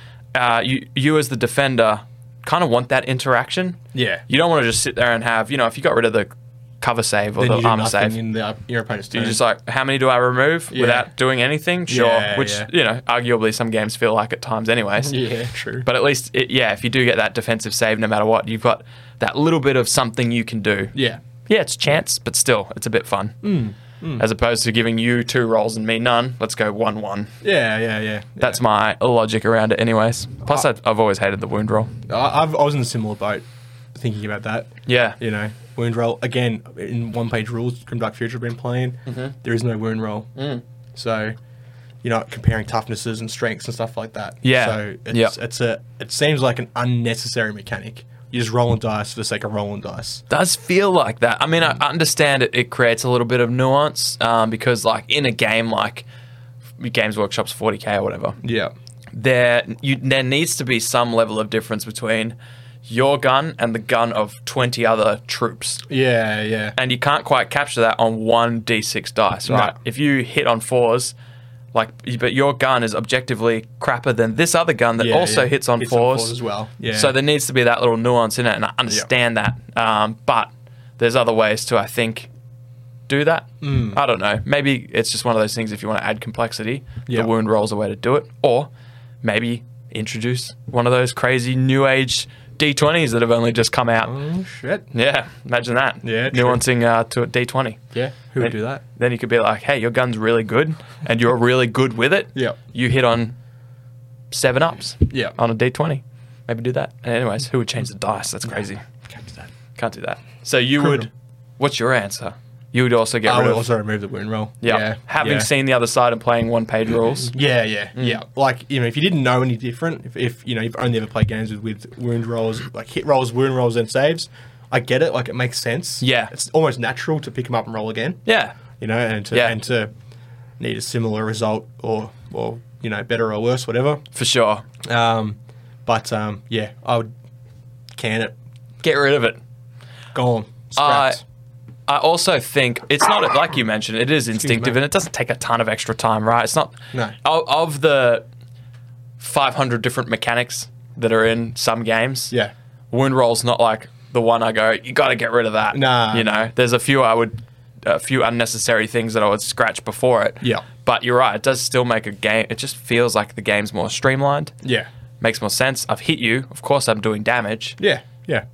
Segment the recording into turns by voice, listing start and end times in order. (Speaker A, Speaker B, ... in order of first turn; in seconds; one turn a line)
Speaker A: 0.3-8.2
Speaker B: 3.9-4.2
Speaker B: 7.4-9.4
Speaker A: 9.1-15.2
Speaker B: 10.7-11.1
Speaker B: 11.9-12.7
Speaker B: 15.0-15.9
Speaker A: 15.8-20.9
Speaker B: 20.9-21.2
Speaker A: 21.5-23.4
Speaker B: 23.4-24.2
Speaker A: 24.2-27.3
Speaker B: 27.4-28.6
Speaker A: 28.4-31.9
Speaker B: 32.1-40.4
Speaker A: 34.9-35.2
Speaker A: 39.1-39.3
Speaker A: 40.4-40.6
Speaker B: 41.0-41.4
Speaker B: 42.0-50.2
Speaker A: 44.4-45.4
Speaker A: 50.3-56.1
Speaker A: 56.8-58.4
Speaker B: 58.4-58.7
Speaker A: 59.1-65.8
Speaker B: 65.9-66.8
Speaker A: 66.8-71.1
Speaker B: 69.5-69.8
Speaker A: 71.7-76.4
Speaker B: 75.0-77.1
Speaker A: 76.9-82.3
Speaker A: 83.1-88.7
Speaker B: 83.6-84.0
Speaker A: 89.2-94.2
Speaker B: 94.0-94.9
Speaker A: 94.9-97.8
Speaker B: 96.0-96.6
Speaker B: 97.9-98.8
Speaker A: 98.4-103.3
Speaker A: 104.3-108.8
Speaker B: 105.1-105.4
Speaker B: 108.5-109.5
Speaker A: 109.8-113.7
Speaker B: 110.8-111.1
Speaker B: 113.2-115.5
Speaker A: 114.6-117.4
Speaker B: 117.3-129.9
Speaker A: 118.0-118.2
Speaker A: 126.0-126.3
Speaker A: 128.3-128.6
Speaker A: 129.3-129.6
Speaker B: 130.6-134.0
Speaker A: 134.2-134.6
Speaker B: 134.8-137.1
Speaker B: 137.9-138.3
Speaker A: 138.8-139.4
Speaker B: 140.1-141.2
Speaker A: 140.8-141.2
Speaker A: 141.9-148.3
Speaker B: 144.3-144.8
Speaker A: 149.2-152.3
Speaker A: 152.9-164.6
Speaker B: 155.7-156.4
Speaker B: 160.4-160.7
Speaker B: 164.6-164.9
Speaker A: 165.2-167.8
Speaker B: 167.8-168.4